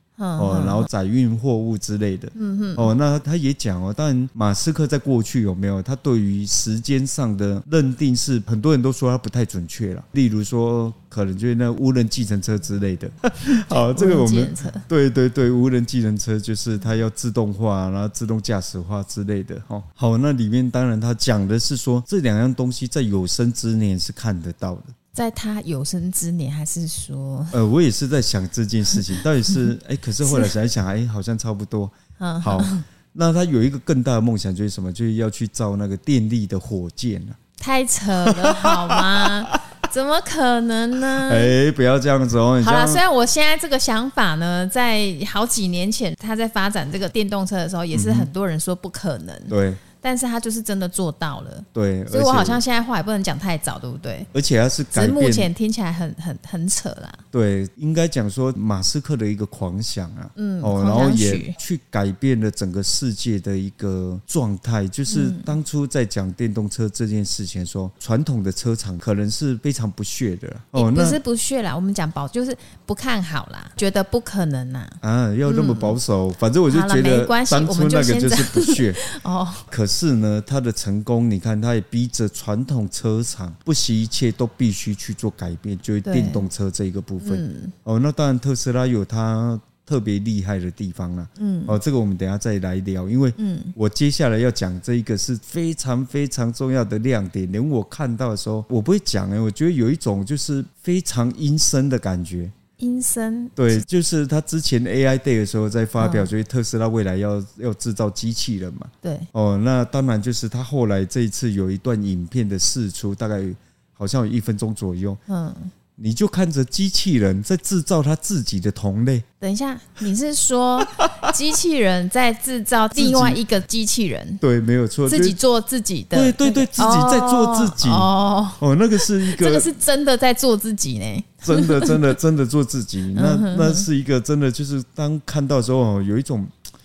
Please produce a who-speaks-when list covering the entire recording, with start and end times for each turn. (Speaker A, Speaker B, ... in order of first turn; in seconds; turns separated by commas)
Speaker A: 0.2-0.9, Speaker B: 0.4-24.9, Speaker A: 2.4-2.9, Speaker A: 13.4-14.8, Speaker A: 25.1-27.6, Speaker B: 27.5-37.4, Speaker A: 30.2-30.5, Speaker A: 32.2-32.8, Speaker A: 37.6-41.6, Speaker B: 38.2-39.6, Speaker B: 41.0-43.0, Speaker A: 42.6-54.3, Speaker B: 47.9-48.3, Speaker B: 49.5-49.8, Speaker B: 51.7-52.6, Speaker B: 54.3-55.5, Speaker A: 54.9-57.2, Speaker B: 57.3-71.2, Speaker A: 60.4-61.6, Speaker A: 65.1-65.5, Speaker A: 70.7-76.0, Speaker B: 75.0-79.0, Speaker A: 76.7-79.6, Speaker B: 79.7-102.5, Speaker A: 86.0-86.5, Speaker A: 87.2-87.7, Speaker A: 91.4-91.8, Speaker A: 93.4-93.7, Speaker A: 102.8-103.8, Speaker B: 103.5-115.2, Speaker A: 106.0-106.3, Speaker A: 109.0-109.3, Speaker A: 115.3-115.7, Speaker B: 116.0-119.2, Speaker A: 119.4-124.4, Speaker B: 121.0-121.2, Speaker B: 122.9-123.4, Speaker B: 124.4-125.4, Speaker A: 125.0-132.0, Speaker B: 126.1-129.7, Speaker B: 131.4-136.5, Speaker A: 133.1-133.9